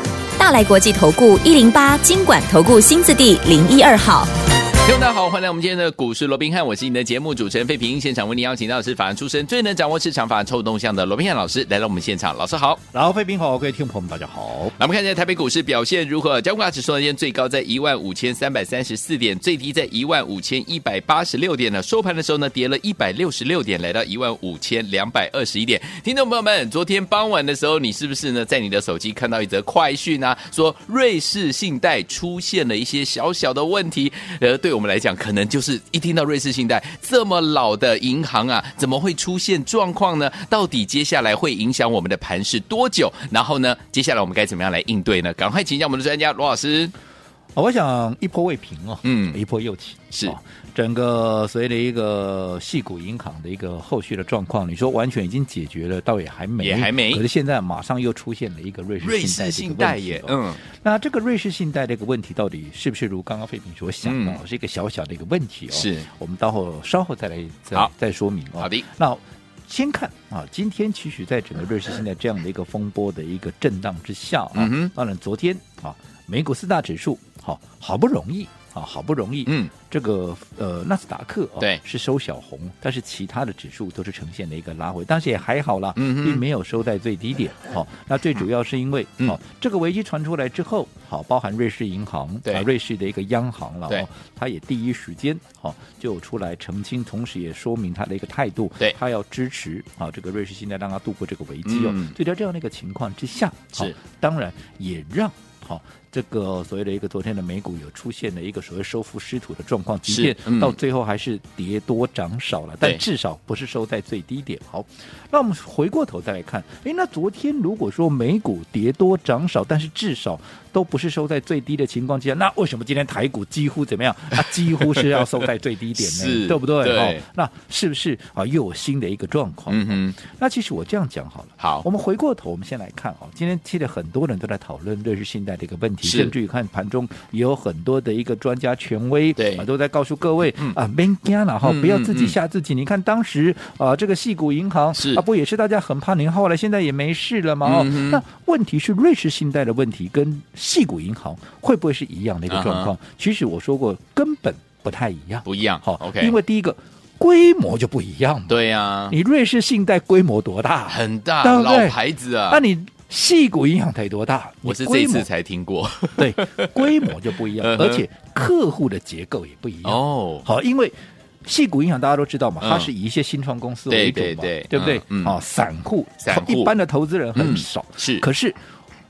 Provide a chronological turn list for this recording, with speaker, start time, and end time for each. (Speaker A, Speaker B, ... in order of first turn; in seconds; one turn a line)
Speaker A: 0.4-4.3
Speaker B: 4.8-12.8
Speaker C: 12.9-14.8
Speaker B: 14.8-46.9
Speaker C: 47.6-165.3
Speaker B: 49.0-49.4
Speaker B: 56.6-57.2
Speaker B: 59.0-60.6
Speaker B: 64.0-64.4
Speaker B: 65.7-66.1
Speaker B: 68.6-68.9
Speaker B: 74.5-74.9
Speaker B: 79.5-79.7
Speaker B: 86.0-86.4
Speaker B: 101.7-102.2
Speaker B: 110.1-110.8
Speaker B: 124.8-125.2
Speaker B: 126.0-127.2
Speaker B: 129.7-130.2
Speaker B: 131.6-131.8
Speaker B: 136.0-136.3
Speaker B: 139.4-139.7
Speaker B: 141.6-142.4
Speaker B: 144.9-145.2
Speaker B: 147.6-148.2
Speaker B: 152.5-152.9
Speaker B: 155.4-156.4
Speaker B: 158.5-159.2
Speaker B: 160.9-162.6
Speaker B: 164.7-168.1
Speaker C: 166.2-178.6
Speaker B: 169.8-170.5
Speaker B: 172.6-172.9
Speaker B: 173.9-175.4
Speaker B: 176.2-176.7
Speaker B: 177.3-178.3